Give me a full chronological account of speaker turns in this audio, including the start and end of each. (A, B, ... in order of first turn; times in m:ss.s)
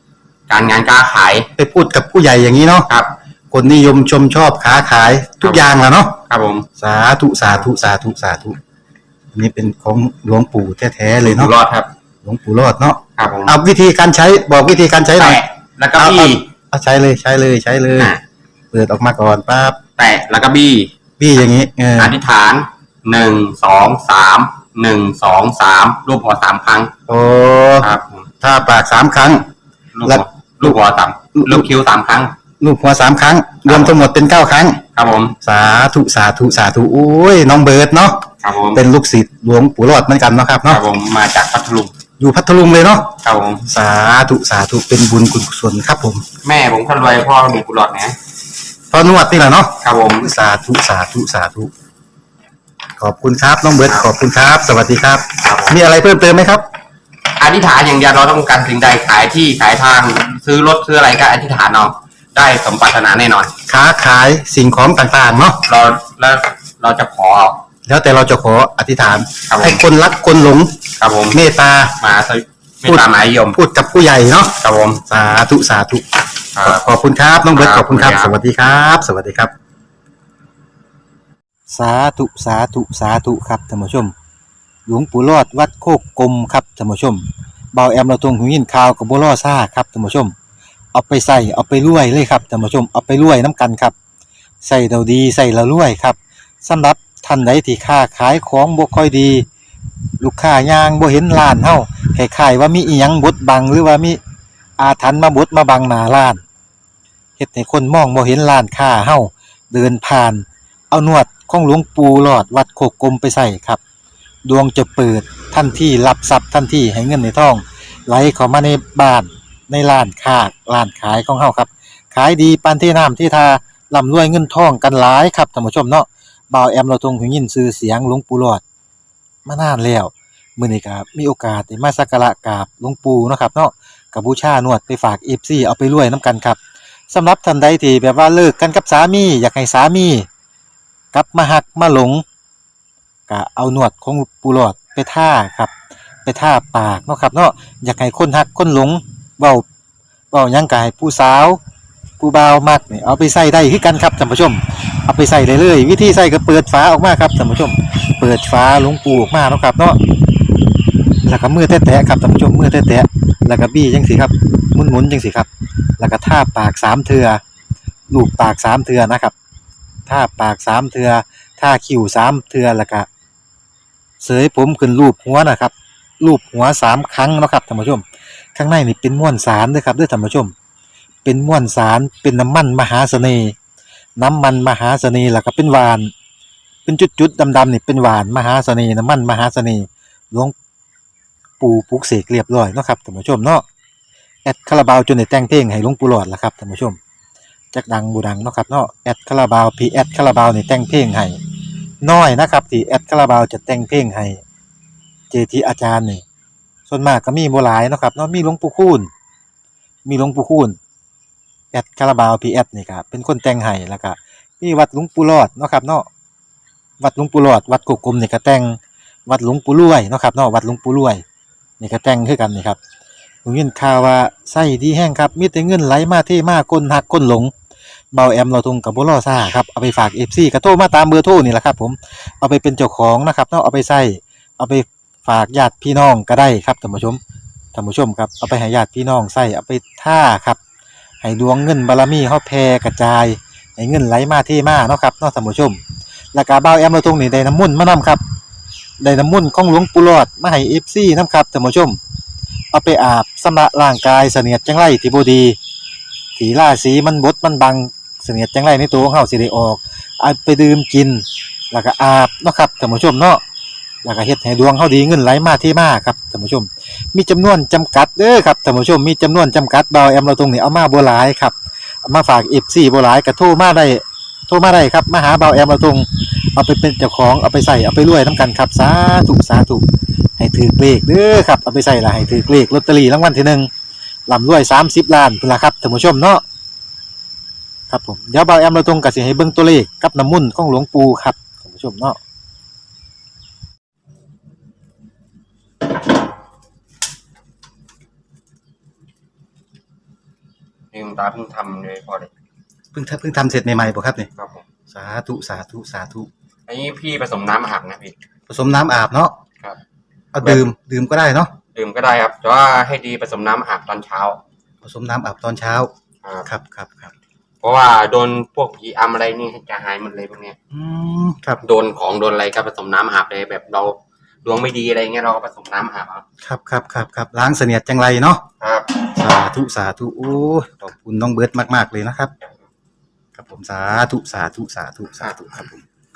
0:00.5-0:01.5 A
0:01.6-0:02.9 B
0:03.5-0:06.2 B
0:06.3-0:06.6 A
0:06.8-0:08.6 B
0:09.3-0:11.5 B
0:11.2-0:11.9 A
0:12.2-0:15.4 B
0:13.2-0:13.6 A
0:15.2-0:16.5 A
0:16.0-0:18.1 B
0:18.7-0:19.8 B
0:20.0-0:20.9 A
0:21.2-0:22.1 B
0:22.0-0:26.9 A
0:27.1-0:27.9 B
0:27.8-0:28.3 A
0:28.4-0:29.5 B
0:29.9-0:32.3 A
0:30.0-0:30.8 B
0:31.3-0:31.7 B
0:32.6-0:34.8 B
0:33.6-0:34.0 A
0:34.9-0:35.3 A
0:35.4-0:40.8 B
0:38.4-0:38.8 A
0:40.7-0:41.9 A
0:42.2-0:46.2 B
0:43.2-0:43.6 A
0:46.4-0:48.2 A
0:48.9-0:51.7 B
0:49.8-0:50.3 A
0:53.0-0:56.6 B
0:55.4-0:55.8 A
0:57.4-1:03.5 A
1:03.7-1:05.6 B
1:05.6-1:07.6 A
1:07.8-1:12.0 B
1:09.5-1:09.8 A
1:11.0-1:11.4 A
1:12.0-1:13.6 A
1:12.8-1:19.5 B
1:14.6-1:15.0 A
1:16.6-1:16.9 A
1:17.5-1:18.3 A
1:21.7-1:24.1 B
1:24.9-1:30.3 B
1:30.9-1:33.9 B
1:34.6-1:39.4 B
1:40.2-1:44.2 B
1:44.8-1:46.4 B
1:47.4-1:53.8 B
1:54.4-2:08.6 B
2:09.4-2:16.6 B
2:17.1-2:20.3 B
2:21.1-2:22.2 B
2:23.3-2:25.7 B
2:26.2-2:29.6 B
2:30.3-2:31.6 B
2:32.2-2:40.0 B
2:41.2-2:47.4 B
2:48.1-2:49.3 B
2:50.1-2:53.1 B
2:54.2-2:58.0 B
2:58.6-3:00.5 B
3:01.2-3:03.6 B
3:04.2-3:06.1 B
3:06.8-3:10.5 B
3:11.6-3:13.6 B
3:14.4-3:17.0 B
3:17.7-3:21.4 B
3:22.0-3:24.4 B
3:25.3-3:26.2 B
3:26.9-3:29.1 B
3:30.0-3:30.8 B
3:31.7-3:36.1 B
3:37.0-3:41.2 B
3:41.8-3:42.8 B
3:43.4-3:47.5 B
3:48.1-3:57.2 B
3:57.7-4:00.6 B
4:01.2-4:05.8 B
4:06.3-4:08.2 B
4:09.0-4:12.0 B
4:12.7-4:15.6 B
4:16.4-4:23.4 B
4:24.0-4:39.8 B
4:40.4-4:43.7 B
4:44.3-4:46.4 B
4:47.9-4:52.2 B
5:00.9-5:02.3 A
5:02.9-5:04.3 B
5:04.4-5:04.6 A
5:04.9-5:06.3 B
5:06.7-5:08.1 A
5:08.5-5:09.3 B
5:10.3-5:11.5 B
5:11.7-5:14.4 A
5:14.8-5:15.9 B
5:16.4-5:17.1 B
5:17.6-5:20.6 A
5:20.7-5:21.6 B
5:21.6-5:26.2 A
5:26.4-5:28.4 B
5:28.6-5:29.0 A
5:29.1-5:32.3 B
5:33.3-5:35.8 B